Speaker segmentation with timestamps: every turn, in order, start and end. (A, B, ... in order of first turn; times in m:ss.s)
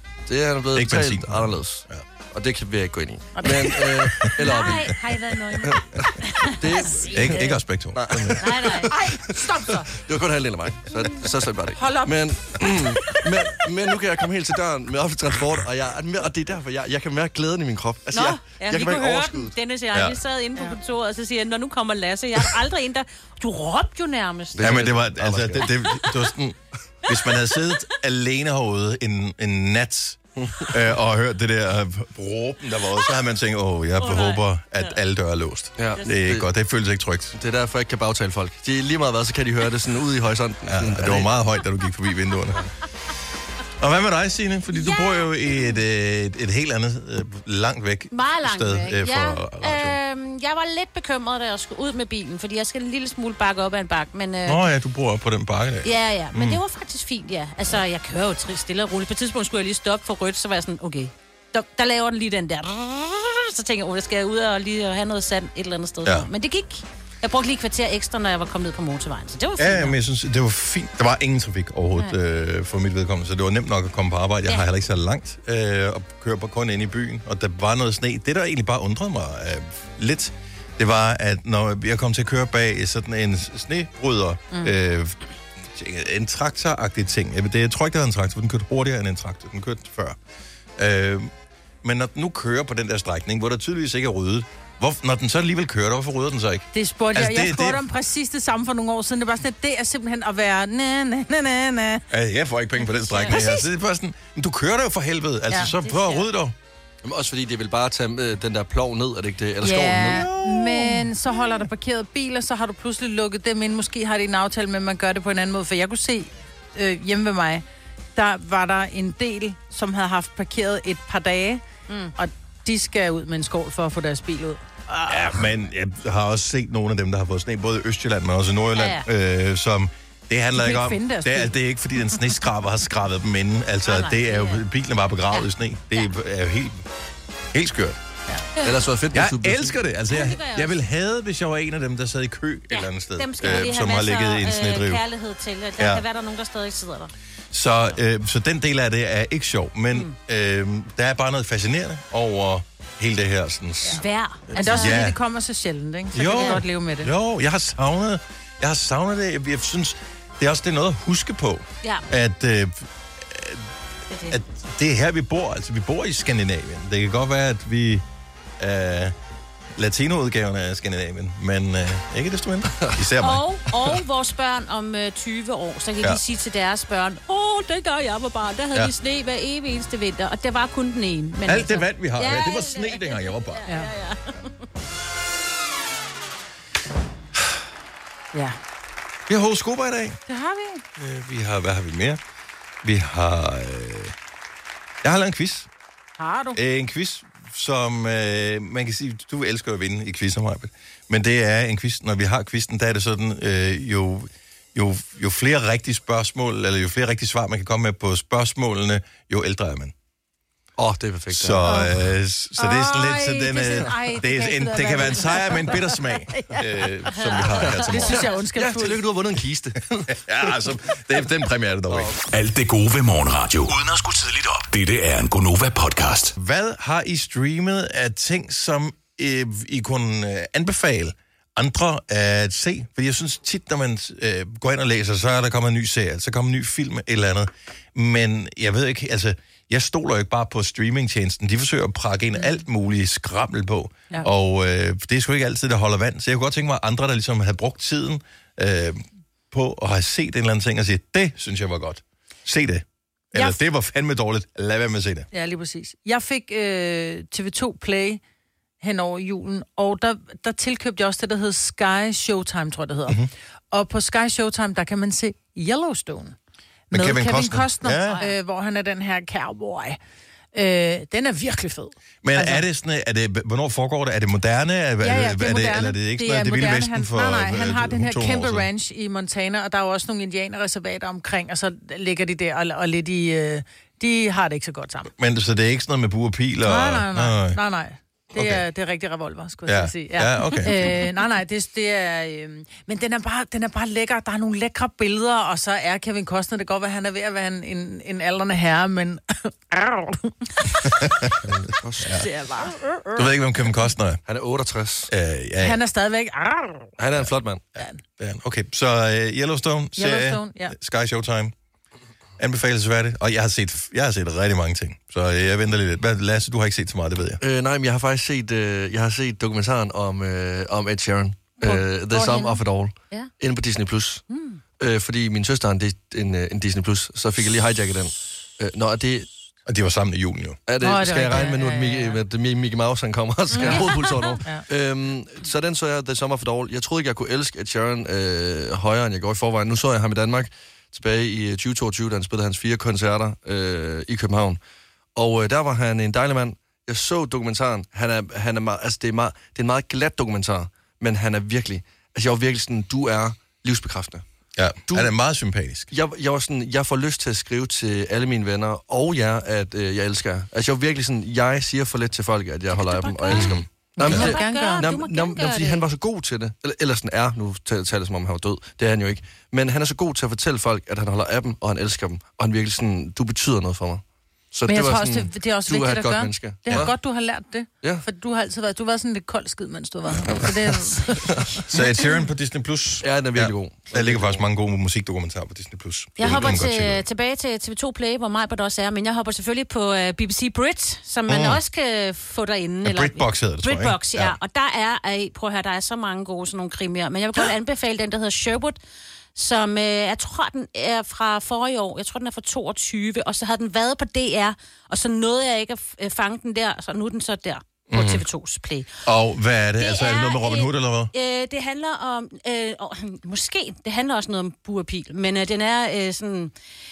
0:00.3-0:05.0 A
0:00.7-0:02.0 B
0:03.3-0:03.8 C
0:04.4-0:07.0 D
0:05.6-0:07.4 A
0:06.4-0:07.6 C
0:07.1-0:08.5 B
0:07.9-0:19.6 A
0:08.4-0:08.9 D
0:08.9-0:09.9 C
0:11.8-0:12.2 C
0:18.1-0:24.9 D
0:19.9-0:20.2 B
0:24.6-0:25.7 A
0:24.6-0:37.3 B
0:25.6-0:26.1 D
0:30.4-0:30.8 A
0:34.0-0:34.9 D
0:35.8-0:36.4 A
0:37.3-0:41.3 A
0:40.7-0:42.7 B
0:43.8-0:50.0 B
0:44.7-0:45.7 D
0:48.1-0:54.6 D
0:54.4-0:56.6 B
0:55.8-1:10.0 D
1:09.6-1:25.2 B
1:25.7-1:30.2 B
1:30.8-1:31.3 B
1:31.8-1:37.8 B
1:36.7-1:42.1 C
1:42.1-1:46.6 B
1:43.1-1:43.4 D
1:43.3-1:43.7 C
1:45.8-1:46.3 D
1:47.0-1:50.3 A
1:49.6-1:57.6 C
1:50.0-1:51.1 B
1:58.2-2:01.6 C
2:01.9-2:02.1 D
2:02.2-2:05.4 C
2:05.1-2:16.8 B
2:08.8-2:09.1 D
2:10.6-2:11.6 C
2:13.8-2:14.6 D
2:15.3-2:16.1 D
2:17.5-2:18.0 B
2:18.6-2:18.8 D
2:18.6-2:19.8 A
2:19.1-2:25.0 B
2:20.1-2:20.7 D
2:22.7-2:27.1 D
2:25.8-2:26.0 B
2:27.5-2:35.2 B
2:34.0-2:35.0 D
2:34.5-2:37.1 C
2:36.1-2:43.6 B
2:36.3-2:36.6 D
2:44.1-2:44.4 D
2:44.3-2:48.0 B
2:48.6-2:49.1 B
2:49.8-2:53.5 B
2:53.2-3:04.6 D
3:01.4-3:03.6 B
3:09.3-3:10.2 B
3:10.3-3:10.8 C
3:11.0-3:12.2 B
3:12.8-3:14.1 B
3:15.0-3:15.7 B
3:16.2-3:16.6 C
3:16.6-3:29.9 B
3:30.8-3:31.9 A
3:31.3-3:38.3 B
3:31.6-3:32.0 C
3:32.6-3:36.6 C
3:37.1-3:38.0 D
3:37.7-3:39.0 C
3:38.0-3:40.2 A
3:40.1-3:42.1 B
3:41.9-3:42.2 A
3:42.2-3:46.3 E
3:46.4-4:15.3 B
4:15.3-4:18.2 C
4:18.8-4:23.2 C
4:23.7-4:26.4 C
4:26.9-4:30.0 C
4:26.9-4:28.2 B
4:28.1-4:28.3 D
4:30.5-4:32.6 C
4:32.2-4:38.7 B
4:35.0-4:45.1 C
4:45.1-4:47.6 B
4:46.6-5:01.0 C
4:48.3-4:48.6 B
4:49.7-4:50.9 B
5:00.8-5:01.4 B
5:01.4-5:02.3 A
5:02.1-5:03.2 C
5:03.1-5:04.2 B
5:04.2-5:05.1 A
5:05.1-5:05.8 B
5:05.6-5:06.9 C
5:07.0-5:07.7 A
5:07.8-5:11.5 B
5:10.0-5:10.7 C
5:12.4-5:17.4 B
5:17.4-5:24.2 A
5:21.6-5:23.3 D
5:24.3-5:24.6 C
5:24.8-5:29.3 A
5:29.7-5:30.6 B
5:30.7-5:44.6 A
5:30.8-5:32.2 C
5:33.5-5:34.4 D
5:45.2-5:54.2 A
5:54.6-5:55.9 B
5:55.9-6:17.0 A
6:02.7-6:05.8 D
6:03.3-6:04.3 B
6:04.0-6:04.9 C
6:14.7-6:21.6 C
6:21.1-6:21.6 A
6:21.7-6:27.0 B
6:23.0-6:24.4 A
6:26.2-6:38.8 D
6:31.3-6:31.6 B
6:32.8-6:34.4 B
6:39.3-6:48.9 D
6:47.9-6:48.2 B
6:49.0-6:51.1 B
6:49.8-6:56.5 D